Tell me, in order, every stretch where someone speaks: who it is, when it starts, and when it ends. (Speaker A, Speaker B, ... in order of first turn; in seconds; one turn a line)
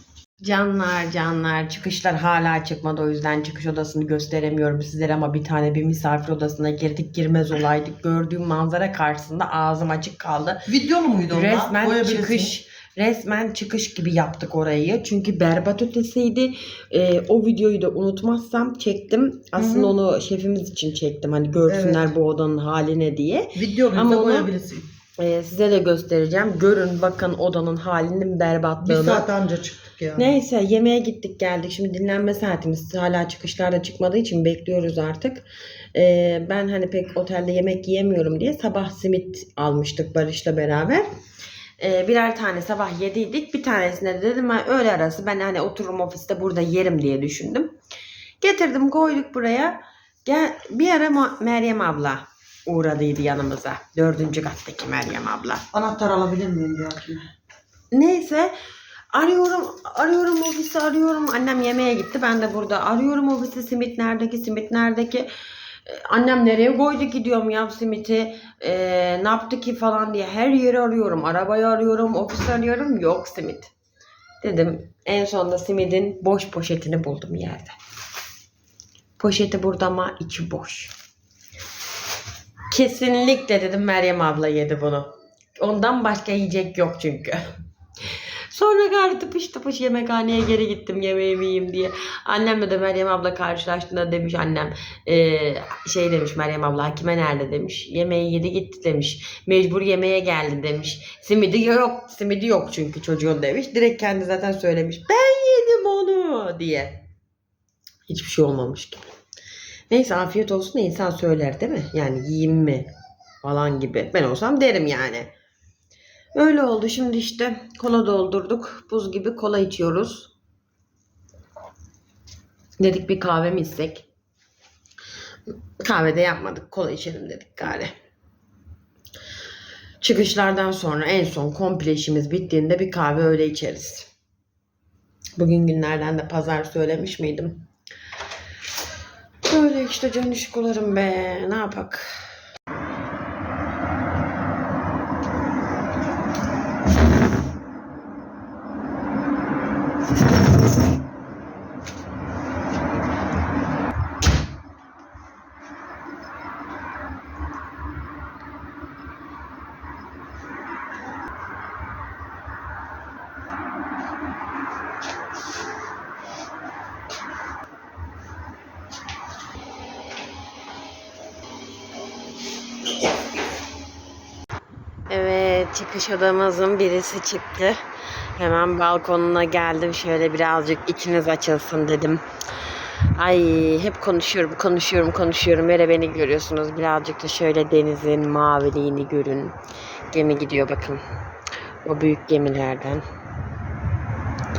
Speaker A: 0.4-10.7
Speaker B: 10.7-12.5
Speaker A: 11.3-24.5
Speaker B: 19.6-19.9
Speaker B: 21.7-22.1
Speaker B: 23.5-24.8
Speaker A: 25.2-29.2
Speaker B: 28.8-30.3
Speaker A: 30.1-41.0
Speaker A: 41.8-47.7
Speaker A: 48.4-55.6
Speaker B: 55.7-57.2
Speaker A: 57.9-58.5
Speaker A: 59.1-65.3
Speaker A: 65.8-73.7
Speaker A: 74.4-77.8
Speaker A: 79.2-80.9
Speaker A: 82.7-87.5
Speaker A: 88.5-107.0
Speaker A: 108.1-109.0
Speaker A: 109.9-112.9
Speaker A: 113.4-115.3
Speaker A: 116.3-120.3
Speaker A: 122.8-124.0
Speaker A: 125.8-127.9
Speaker A: 130.0-134.1
Speaker A: 135.4-137.6
Speaker A: 139.5-142.1
Speaker A: 175.1-177.8
Speaker A: 178.3-182.2
Speaker A: 183.2-189.6
Speaker A: 190.1-191.0
Speaker A: 191.8-193.0